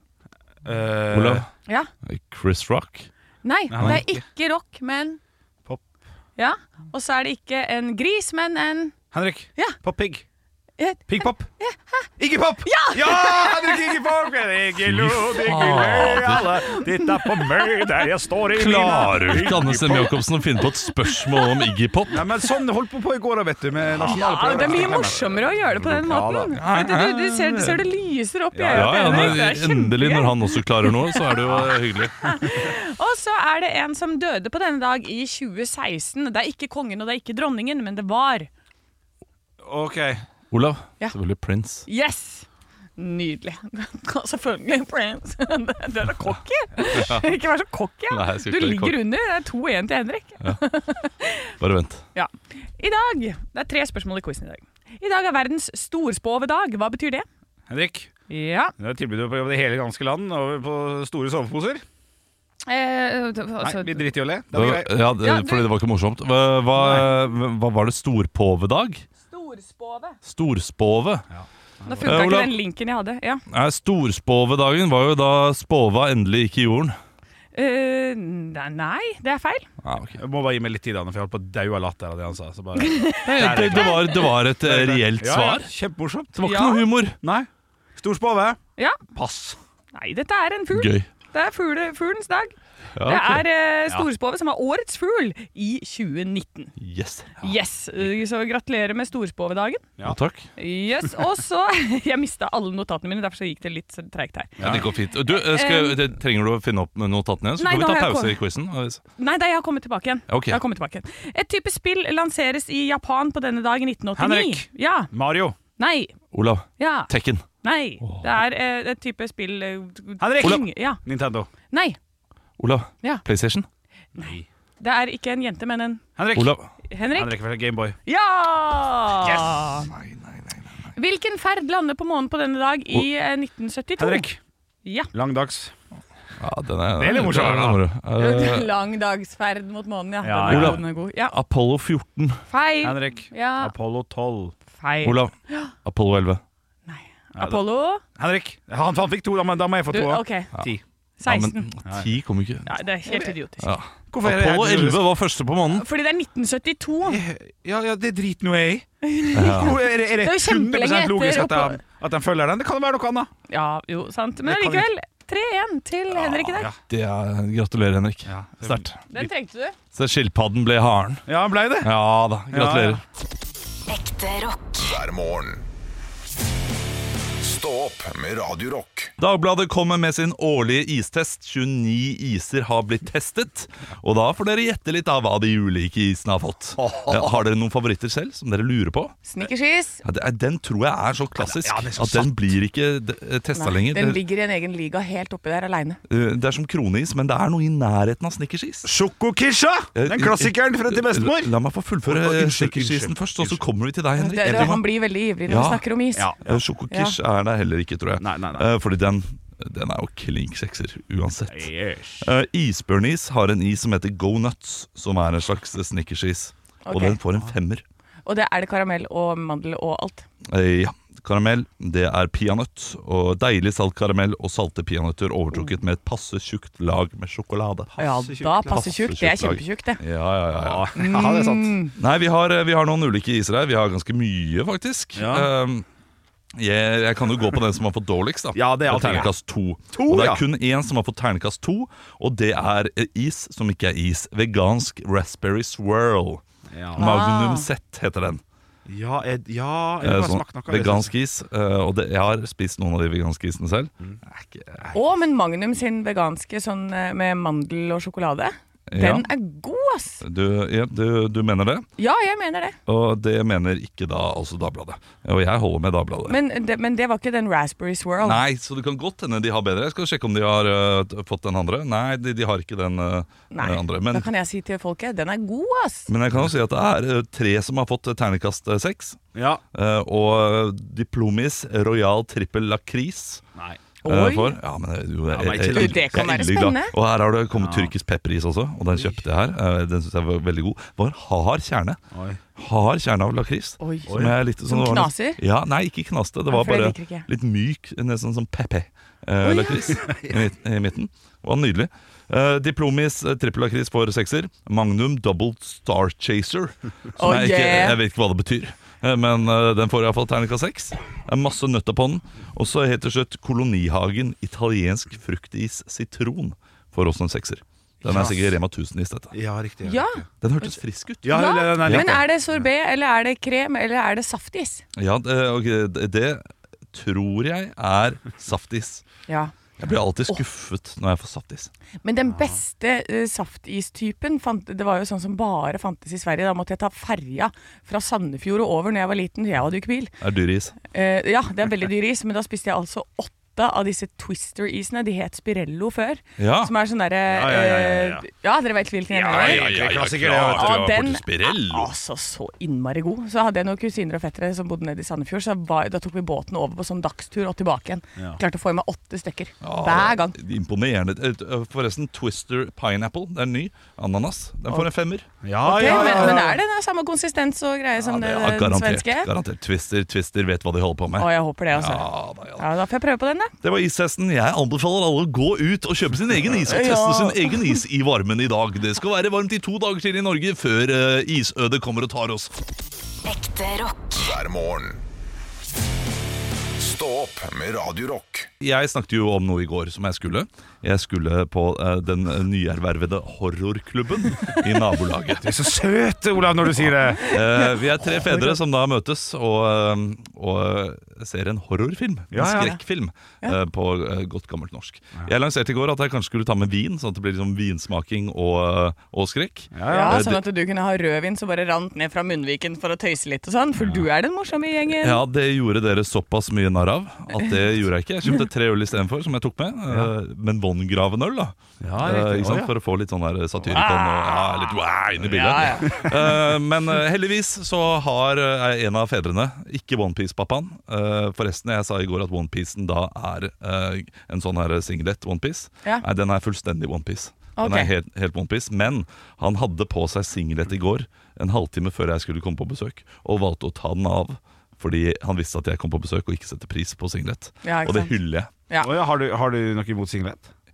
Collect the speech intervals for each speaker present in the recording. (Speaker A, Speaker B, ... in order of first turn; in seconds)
Speaker A: 0.6-1.5, 3.7-4.2, 9.1-10.2, 11.1-11.5, 12.2-20.1, 22.1-26.6, 28.5-29.5, 31.5-31.8, 39.6-40.2, 57.7-58.1, 58.8-61.8, 63.6-64.9, 66.8-67.1, 71.3-72.2, 80.2-86.3, 87.2-88.6, 89.1-89.6, 104.6-104.9, 114.2-115.6, 120.2-121.5, 124.2-124.5, 126.2-126.5, 127.1-128.0, 134.0-134.4, 135.1-135.7, 137.0-137.8, 140.2-140.8, 142.8-144.6, 147.4-147.6, 148.2-150.8, 154.1-155.1, 157.1-163.3, 164.4-164.9, 166.2-166.8, 168.3-168.9, 171.3-171.9, 172.5-173.0, 186.8-187.4, 191.4-192.5, 198.8-203.6, 204.4-204.8, 206.2-206.6, 208.2-208.7, 211.5-212.3, 227.9-228.8, 230.5-231.8, 235.2-235.5, 238.5-239.3, 239.9-240.4, 246.7-247.2, 248.9-251.1, 279.4-279.6, 285.3-286.3, 287.5-287.9, 292.1-292.4, 294.1-294.4, 300.0-300.4, 318.0-318.5, 319.3-320.2, 321.2-322.3, 332.3-332.6, 347.3-348.3, 349.1-350.8, 365.4-366.6, 395.4-397.3, 402.3-402.8, 409.7-410.2, 421.8-422.7, 448.8-450.5
Speaker B: 1.1-1.5, 2.0-3.1, 14.8-16.6, 18.5-22.3, 26.5-27.8, 28.7-32.3, 40.5-41.9, 46.9-47.3, 48.1-49.0, 51.6-52.0, 64.5-69.0, 70.2-71.3, 72.0-72.6, 73.5-77.0, 79.8-80.2, 83.2-85.7, 86.3-87.2, 90.7-91.1, 93.0-93.4, 96.8-97.5, 100.0-100.5, 104.6-109.0, 110.3-110.6, 116.3-117.5, 118.0-118.4, 122.6-123.7, 126.3-126.7, 129.3-130.9, 136.4-138.7, 140.5-142.4, 145.0-146.4, 151.2-152.8, 153.6-155.8, 159.3-159.8, 166.9-169.3, 169.9-171.2, 171.8-173.0, 179.2-189.2, 190.0-194.2, 196.1-198.9, 199.9-204.9, 205.5-205.8, 206.4-211.7, 212.2-217.8, 220.4-227.9, 228.7-230.9, 232.0-235.9, 236.5-246.4, 246.9-248.4, 250.0-255.0, 258.9-259.3, 260.2-261.9, 262.9-266.4, 268.2-274.3, 276.1-279.2, 279.7-283.4, 284.1-292.0, 292.6-319.4, 320.4-322.2, 324.9-329.1, 329.8-331.7, 340.2-340.8, 346.4-346.7, 349.3-351.9, 359.6-366.4, 368.0-372.7, 373.6-382.5, 388.6-395.5, 396.8-410.4, 414.9-448.5
Speaker C: 3.4-5.2, 6.4-8.9, 10.8-12.1, 12.7-13.9, 15.7-15.9, 16.6-17.9, 21.1-21.7, 24.0-31.4, 32.0-38.5, 41.9-42.5, 43.0-51.5, 52.1-57.3, 58.3-58.7, 62.7-64.1, 65.2-65.7, 69.2-70.2, 71.9-73.4, 77.5-79.7, 82.8-84.3, 86.4-86.8, 89.9-92.5, 93.0-96.7, 97.4-99.8, 100.6-106.0, 107.6-108.4, 109.2-115.1, 115.8-116.1, 116.8-117.1, 117.6-121.0, 121.7-122.0, 124.2-126.0, 126.9-127.4, 128.1-129.9, 131.0-134.3, 134.8-135.1, 138.2-141.4, 142.5-143.7, 144.8-145.7, 146.9-148.0, 149.9-150.5, 151.2-151.7, 152.7-153.7, 155.7-157.2, 159.0-161.8, 163.5-166.7, 169.1-169.8, 189.3-190.0, 193.6-196.0, 204.2-206.3, 206.9-207.2, 216.8-217.2, 218.3-220.3, 228.0-230.0, 230.9-231.9, 247.0-247.7, 254.9-260.2, 262.0-262.8, 266.3-268.4, 273.5-276.1, 284.0-284.6, 285.7-286.9, 293.8-294.1, 294.6-295.4, 296.5-297.3, 299.4-300.0, 307.2-308.0, 319.8-320.8, 321.3-324.8, 329.3-329.5, 332.0-340.1, 340.9-349.7, 350.4-360.4, 365.6-369.3, 371.2-373.5, 376.6-377.8, 397.3-398.6, 409.9-415.2, 423.7-426.2, 437.6-437.9, 447.6-448.2
Speaker D: 173.9-174.9, 383.2-384.2
Speaker E: 174.8-175.7, 177.4-179.1, 384.2-385.0, 386.8-388.5